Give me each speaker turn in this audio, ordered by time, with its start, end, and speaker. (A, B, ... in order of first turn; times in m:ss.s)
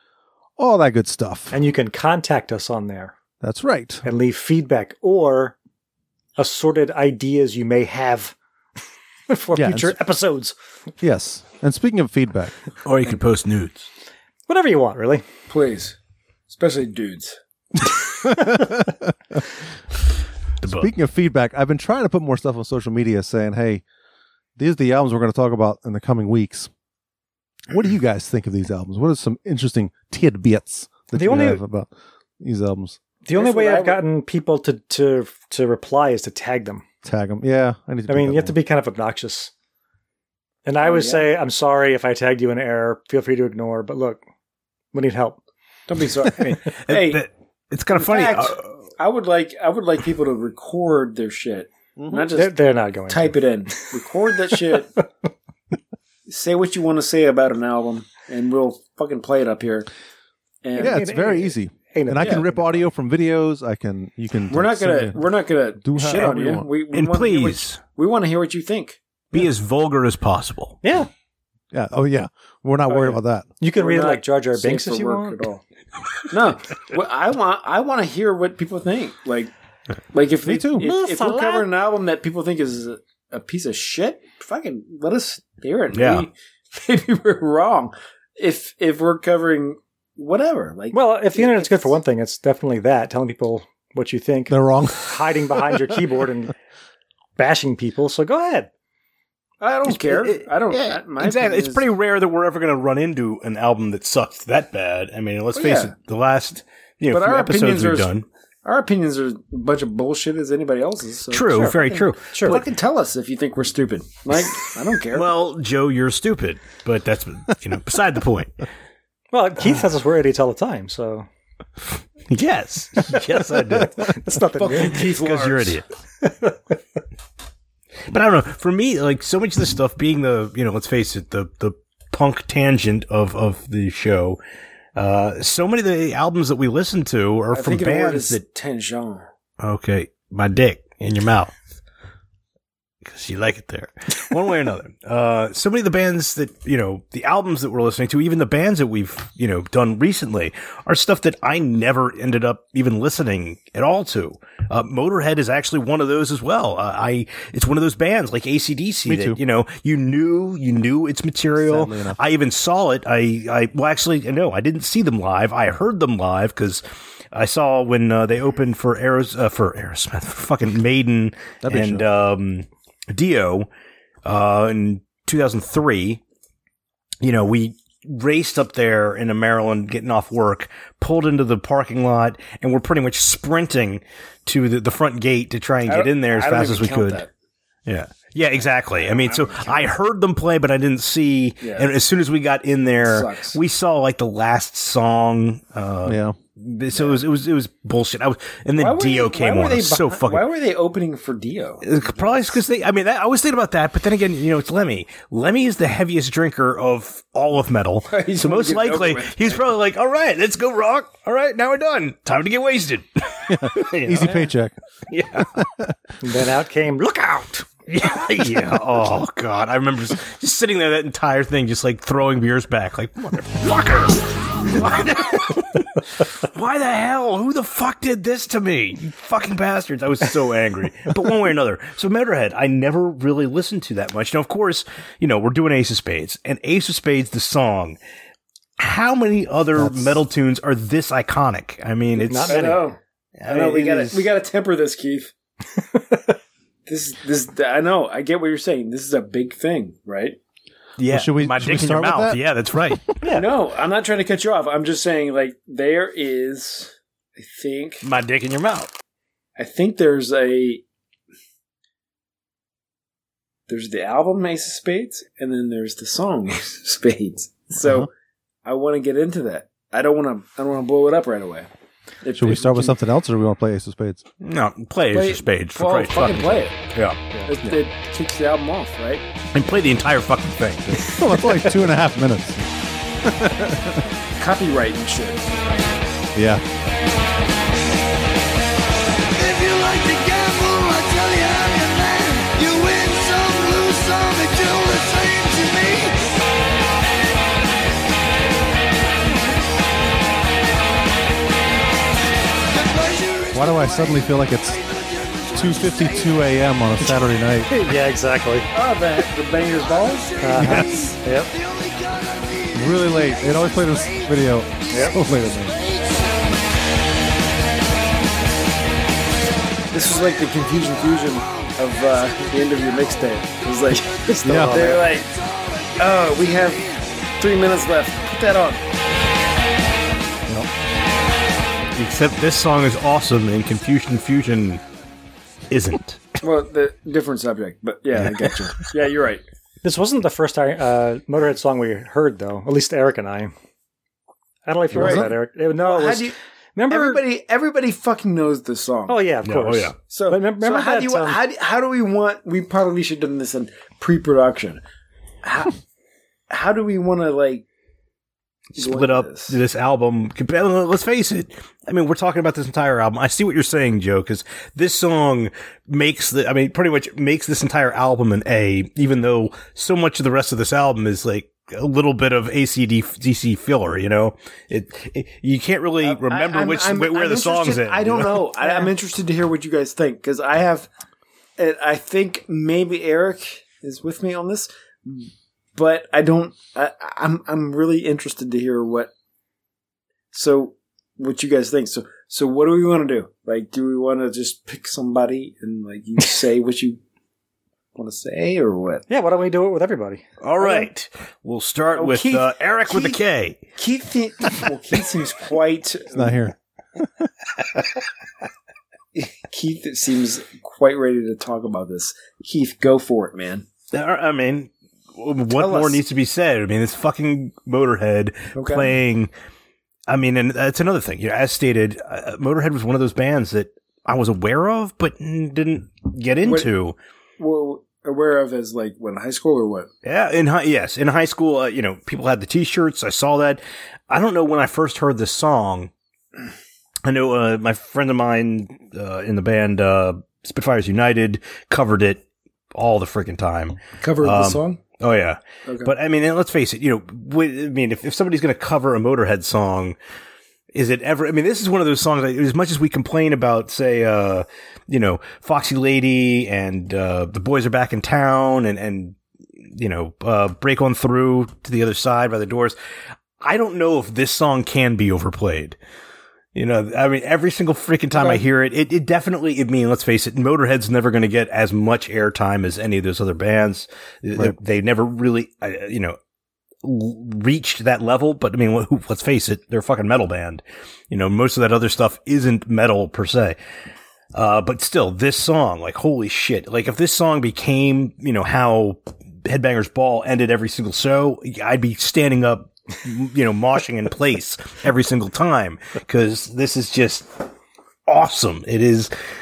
0:00.6-0:01.5 A
0:01.5-0:03.1 B
0:03.4-0:04.0 A
0:04.0-0:05.5 B
0:06.4-0:08.3 B
0:09.3-0:10.5 B
0:09.5-0:10.0 A
0:11.0-0:12.5 A
0:12.8-0:13.9 C
0:14.5-0:15.2 B
0:15.5-0:16.0 D
0:16.5-0:17.4 D
0:18.2-0:19.4 A
0:20.6-0:20.9 C
0:20.6-0:23.8 A
0:24.6-0:26.7 A
0:27.7-0:33.0 A
0:31.1-0:31.6 B
0:33.2-0:36.8 B
0:33.3-0:34.0 D
0:37.0-0:38.6 A
0:38.1-0:39.5 B
0:40.6-0:44.2 B
0:40.8-0:41.3 D
0:44.9-0:45.4 B
0:45.9-0:47.2 D
0:46.4-0:48.6 C
0:47.9-0:54.9 D
0:52.0-0:52.3 A
0:52.3-0:53.8 B
0:54.6-0:55.0 B
0:56.3-0:59.9 D
1:00.6-1:01.0 D
1:00.8-1:02.8 B
1:00.8-1:06.7 A
1:04.5-1:09.0 D
1:06.9-1:07.8 C
1:09.3-1:10.8 C
1:10.8-1:11.1 B
1:11.7-1:13.5 A
1:12.9-1:15.5 B
1:13.7-1:15.6 D
1:16.3-1:19.5 D
1:20.1-1:32.0 D
1:20.4-1:21.1 A
1:20.9-1:21.6 B
1:25.9-1:26.3 C
1:30.9-1:36.5 B
1:34.5-1:35.1 A
1:37.4-1:38.7 B
1:39.6-1:41.8 D
1:39.8-1:48.2 C
1:45.5-1:45.9 D
1:47.1-1:48.1 D
1:48.6-1:55.3 D
1:51.3-1:52.6 C
1:51.5-1:51.8 B
1:52.3-1:52.6 B
1:55.1-1:58.6 C
1:59.3-2:01.3 B
2:02.3-2:04.0 C
2:03.8-2:05.0 B
2:04.5-2:05.8 D
2:04.9-2:05.8 C
2:06.2-2:06.5 B
2:08.1-2:14.4 C
2:15.0-2:18.4 C
2:17.5-2:19.3 D
2:19.6-2:21.5 C
2:23.0-2:53.7 C
2:39.1-2:39.4 A
2:41.6-2:42.2 A
2:51.6-2:52.1 A
2:54.2-2:56.2 C
2:57.2-3:07.2 C
3:05.9-3:07.3 D
3:07.9-3:20.4 C
3:08.6-3:09.9 D
3:11.6-3:11.9 D
3:13.0-3:13.6 D
3:16.0-3:16.4 A
3:16.9-3:17.2 D
3:18.8-3:22.6 D
3:21.8-3:34.5 C
3:28.1-3:29.6 D
3:33.5-3:34.8 A
3:35.1-3:35.5 C
3:35.4-3:35.9 A
3:36.2-3:37.6 B
3:37.9-3:58.0 C
3:58.8-4:02.8 C
4:02.2-4:02.8 B
4:02.4-4:05.3 D
4:03.4-4:04.3 C
4:05.9-4:06.3 B
4:06.8-4:10.4 D
4:11.0-4:13.1 C
4:11.1-4:13.0 A
4:13.2-4:13.5 B
4:13.3-4:18.0 D
4:18.0-4:18.9 C
4:19.6-4:20.8 D
4:23.7-4:28.1 D
4:27.8-4:28.1 A
4:28.6-4:31.7 D
4:32.2-4:33.0 D
4:32.3-4:34.2 A
4:34.4-4:37.2 C
4:35.1-4:36.8 D
4:37.4-4:39.2 D
4:39.5-4:41.2 C
4:40.9-4:42.7 A
4:43.2-4:44.0 A
4:44.4-4:45.8 D
4:46.3-4:46.6 A
4:49.3-4:56.2 E
5:02.7-5:06.5 E
5:03.5-5:04.8 A
5:05.5-5:07.7 A
5:07.7-5:08.7 B
5:08.7-5:10.6 D
5:10.3-5:14.6 E
5:10.4-5:11.5 B
5:10.6-5:11.2 A
5:12.7-5:15.8 A
5:14.9-5:15.2 B
5:15.6-5:16.5 E
5:19.9-5:25.3 D
5:24.4-5:25.0 A
5:24.4-5:25.0 B
5:26.0-5:26.8 D
5:27.4-5:28.8 D
5:31.9-5:34.8 C
5:35.7-5:36.2 C
5:36.4-5:39.4 D
5:39.8-5:43.5 B
5:44.6-5:47.2 B
5:44.9-5:45.3 A
5:44.9-5:46.3 D
5:46.9-5:49.2 D
5:49.1-5:51.4 B
5:49.4-5:49.9 C
5:50.0-5:54.8 D
5:55.4-5:55.8 D
5:56.5-5:57.6 D
5:58.8-5:59.6 D
5:58.8-6:18.5 C
6:16.0-6:20.9 D
6:21.6-6:29.1 D
6:30.3-6:37.0 D
6:38.0-6:39.0 D
6:39.1-6:40.2 B
6:40.4-6:43.6 C
6:42.0-6:43.2 D
6:43.8-6:46.4 D
6:46.1-6:46.5 A
6:49.1-6:53.6 D
6:53.9-6:59.3 C
6:55.5-6:56.0 D
6:58.5-6:58.9 D
7:00.1-7:07.0 C
7:06.4-7:06.7 D
7:07.4-7:09.9 D
7:10.0-7:15.9 C
7:17.0-7:30.0 C
7:24.0-7:24.8 D
7:25.6-7:25.9 D
7:30.7-7:39.2 C
7:39.7-7:42.8 C
7:43.4-7:45.8 C
7:46.5-7:56.2 C
7:48.1-7:48.4 D
7:56.8-8:03.6 C
8:04.3-8:17.5 C
8:18.1-8:19.1 C